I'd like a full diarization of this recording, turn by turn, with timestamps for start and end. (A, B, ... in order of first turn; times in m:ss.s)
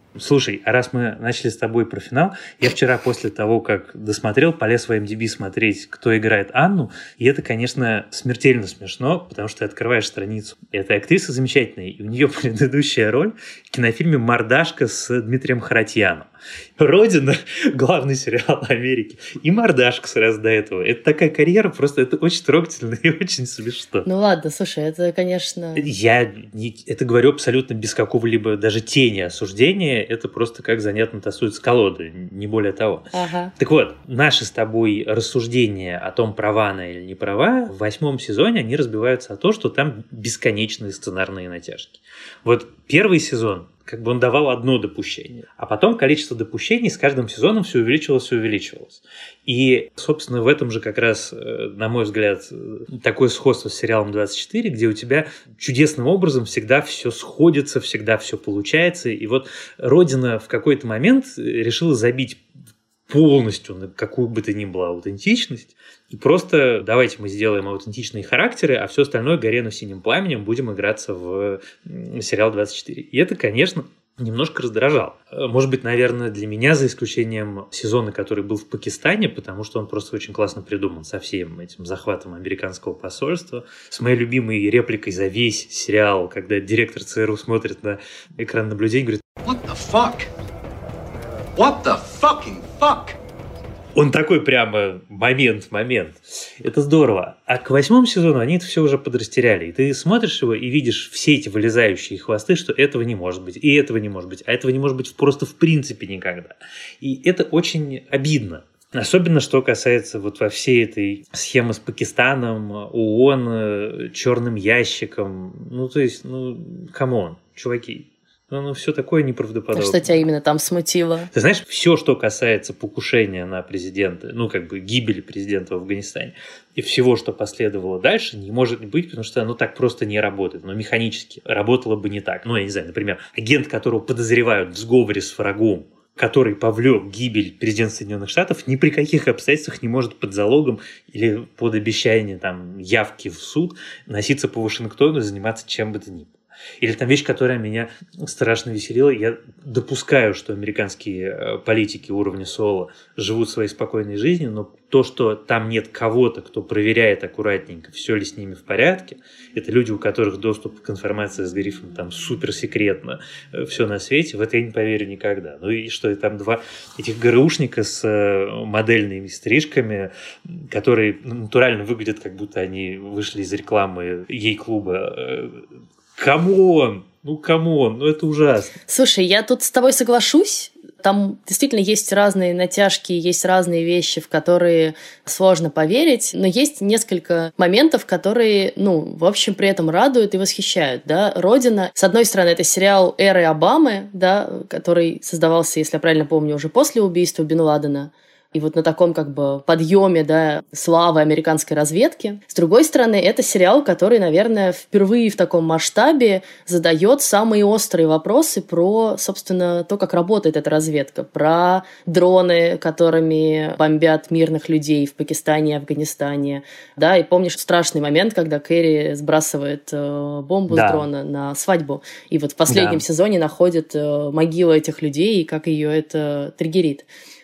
0:00.2-0:24.1 A
0:24.0-0:25.9 B
0:25.8-1:02.4 A
0:33.1-0:33.5 B
1:03.1-1:29.2 A
1:29.4-1:30.3 C
1:31.5-1:33.2 C
1:33.9-2:00.2 A
1:59.7-2:01.3 B
2:01.3-2:55.6 A
2:56.2-2:58.7 A
2:58.9-3:47.1 B
3:40.7-3:41.1 A
3:42.7-3:43.0 A